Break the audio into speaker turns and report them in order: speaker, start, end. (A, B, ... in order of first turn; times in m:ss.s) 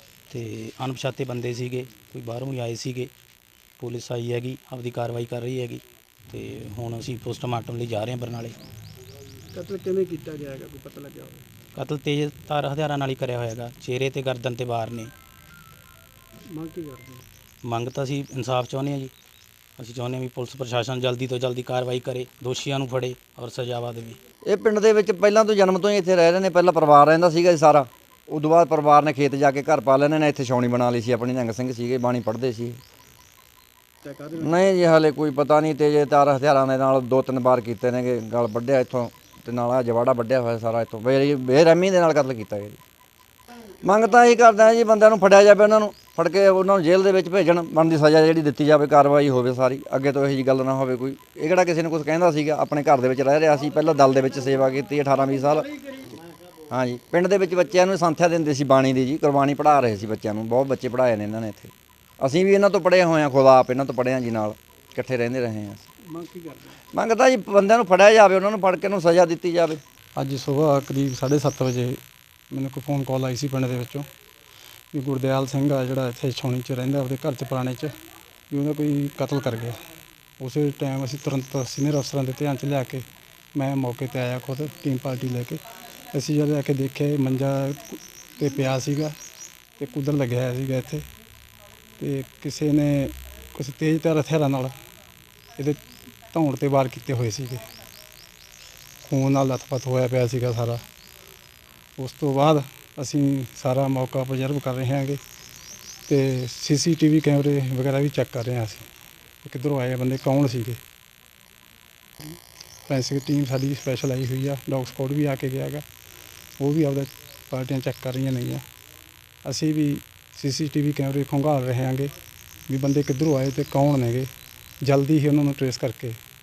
0:00.3-0:03.1 A
0:03.8-0:08.6 A
0:09.5-0:11.5 B
0:11.8-0:15.1 A
0:16.4-0:17.2 B
0:17.6-0:19.1 A
0:19.8-0:24.2 A
0:24.5-0:32.8 C
0:34.0-0:34.4 B
0:34.3-0:42.8 C
0:43.8-0:56.0 C
0:56.7-1:05.9 C
1:06.1-1:06.8 B
1:06.9-1:09.8 C
1:10.2-1:14.1 D
1:14.9-1:17.9 D
1:18.5-1:19.8 D
1:20.4-1:25.6 D
1:26.1-1:29.2 D
1:29.8-1:31.0 D
1:32.0-1:34.7 D
1:36.3-1:37.6 D
1:39.0-1:40.8 D
1:42.0-1:45.2 D
1:46.1-1:48.9 D
1:49.4-1:50.8 D
1:52.9-1:55.8 D
1:56.6-1:58.6 D
1:59.4-2:02.1 D
2:02.7-2:04.3 D
2:04.8-2:06.2 D